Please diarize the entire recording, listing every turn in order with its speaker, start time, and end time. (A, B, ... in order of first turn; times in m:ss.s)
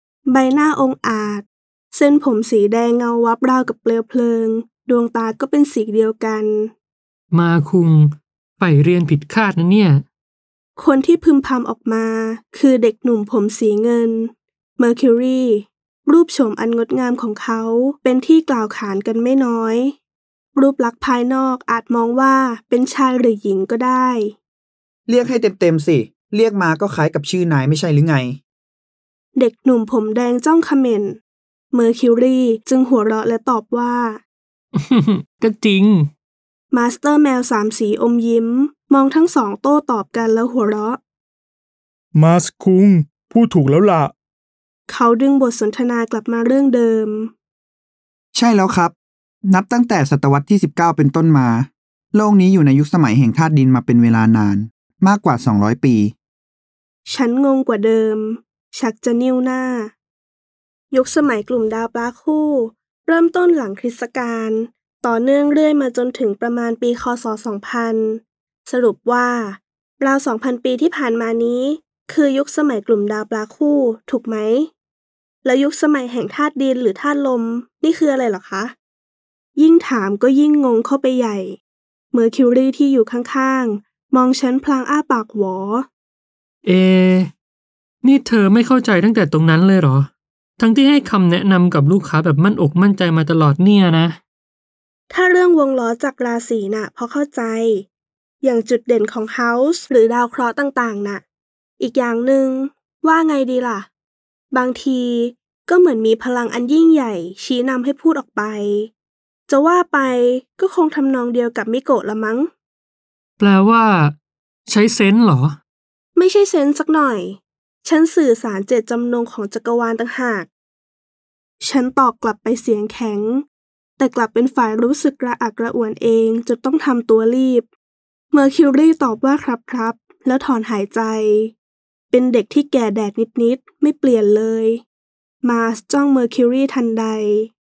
0:00.3-0:06.7 A
0:07.3-0:10.0 B
0:10.8-0:20.0 A
0:20.6-0:24.4 A
0:25.1-0:28.4 C
0:29.4-0:31.2 A
0:31.7-0:34.2 A
0:34.8-0:36.1 B
0:36.7-0:41.0 A
0:42.1-0:44.1 D
0:44.9-0:47.3 A
0:48.4-0:48.9 C
0:49.4-0:56.1 C
0:57.1-0:59.9 A
1:00.9-1:14.7 A
1:15.4-1:18.8 A
1:19.6-1:21.6 A
1:22.1-1:25.9 A
1:26.6-1:27.3 B
1:28.0-1:34.2 B
1:35.1-1:37.9 A
1:38.4-1:41.2 A
1:41.8-1:43.9 A
1:44.5-1:48.9 A
1:49.5-1:52.5 A
1:53.4-1:54.2 B
1:54.7-1:55.6 B
1:56.2-2:00.5 A
2:01.6-2:03.4 A
2:04.0-2:07.7 A
2:08.3-2:11.5 A
2:12.1-2:14.8 A
2:15.4-2:17.5 A